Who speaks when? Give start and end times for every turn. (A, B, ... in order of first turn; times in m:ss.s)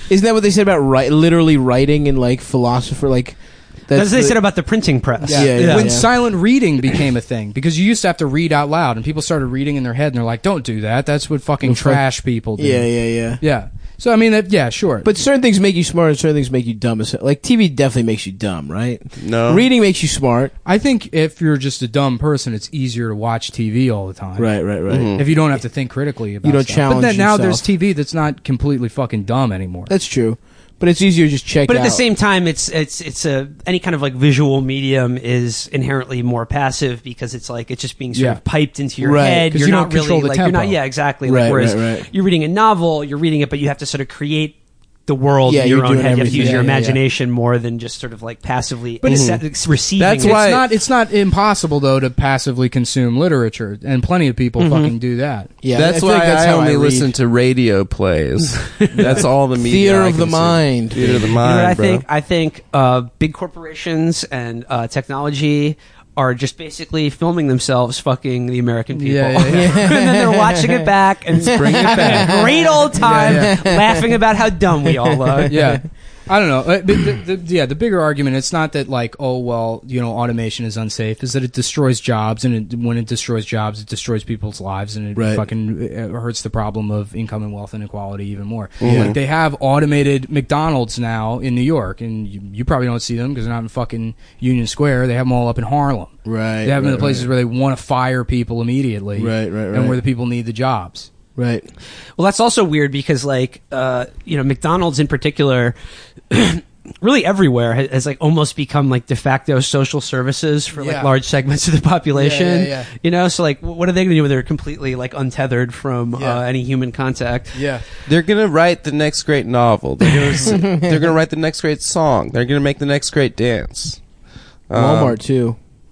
0:00.1-0:04.4 A
0:03.9-0:06.1 B
0:05.2-0:15.1 C
0:05.3-0:06.1 A
0:11.6-0:12.0 A
0:12.6-0:13.4 A
0:15.0-0:20.5 A
0:19.2-0:19.6 D
0:20.6-0:24.5 C
0:24.4-0:25.3 A
0:24.9-0:25.2 D
0:25.2-0:29.9 C
0:26.4-0:27.6 A
0:29.9-0:32.0 A
0:31.7-0:50.4 B
0:38.1-0:38.4 C
0:39.0-0:39.5 A
0:39.5-0:40.8 C
0:41.2-0:42.1 A
0:45.5-0:47.0 A
0:46.3-0:46.6 C
0:49.0-0:49.4 C
0:49.1-0:49.4 D
0:50.0-0:55.5 C
0:50.1-0:50.7 D
0:54.6-0:54.9 B
0:55.6-0:57.1 A
0:55.7-1:02.0 D
0:59.0-0:59.2 C
0:59.5-1:01.4 A
1:01.4-1:15.6 B
1:09.0-1:09.8 C
1:09.5-1:14.2 A
1:11.5-1:12.3 D
1:12.0-1:12.3 C
1:13.0-1:13.6 C
1:14.8-1:15.8 A
1:15.5-1:41.1 C
1:25.2-1:25.4 A
1:28.8-1:29.2 D
1:28.8-1:29.2 A
1:36.2-1:37.3 A
1:39.2-1:40.0 A
1:41.4-1:41.7 A
1:42.2-1:45.8 B
1:46.3-1:57.7 B
1:50.8-1:51.1 C
1:52.2-1:52.9 C
1:56.2-1:56.4 C
1:57.5-1:57.8 C
1:58.1-2:04.0 D
2:00.4-2:00.9 A
2:04.7-2:05.2 D
2:04.7-2:05.6 A